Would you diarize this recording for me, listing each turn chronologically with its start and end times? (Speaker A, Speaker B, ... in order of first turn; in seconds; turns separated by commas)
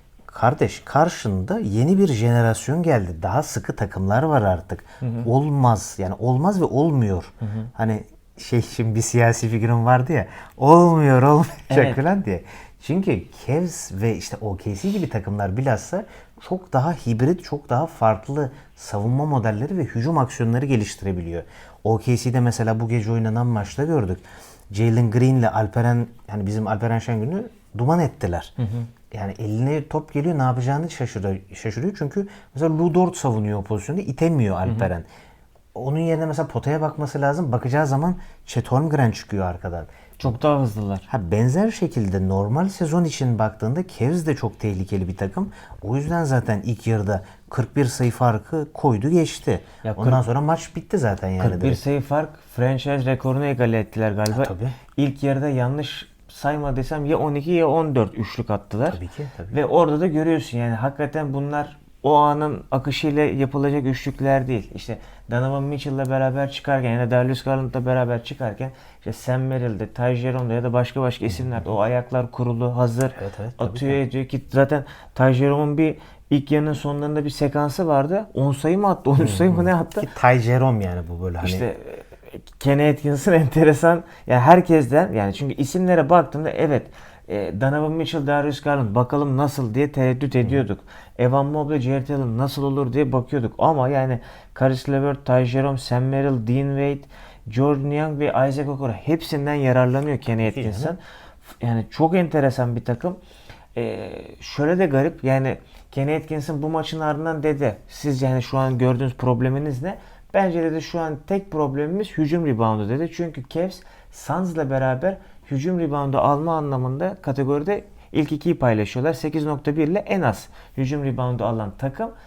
Speaker A: 0.3-28.6, Speaker B: 5.0-5.3, Speaker B: 7.4-7.7, Speaker B: 11.7-12.0, Speaker B: 28.6-28.9, Speaker A: 29.1-35.1, Speaker A: 35.7-39.9, Speaker B: 40.2-41.1, Speaker A: 41.1-51.8, Speaker B: 49.8-50.2, Speaker B: 51.4-59.0, Speaker A: 54.3-54.8, Speaker A: 58.9-59.6, Speaker B: 59.5-80.1, Speaker A: 73.2-74.0, Speaker A: 79.2-81.7, Speaker B: 81.4-101.0, Speaker A: 100.4-101.0, Speaker B: 101.6-103.2, Speaker B: 103.8-122.1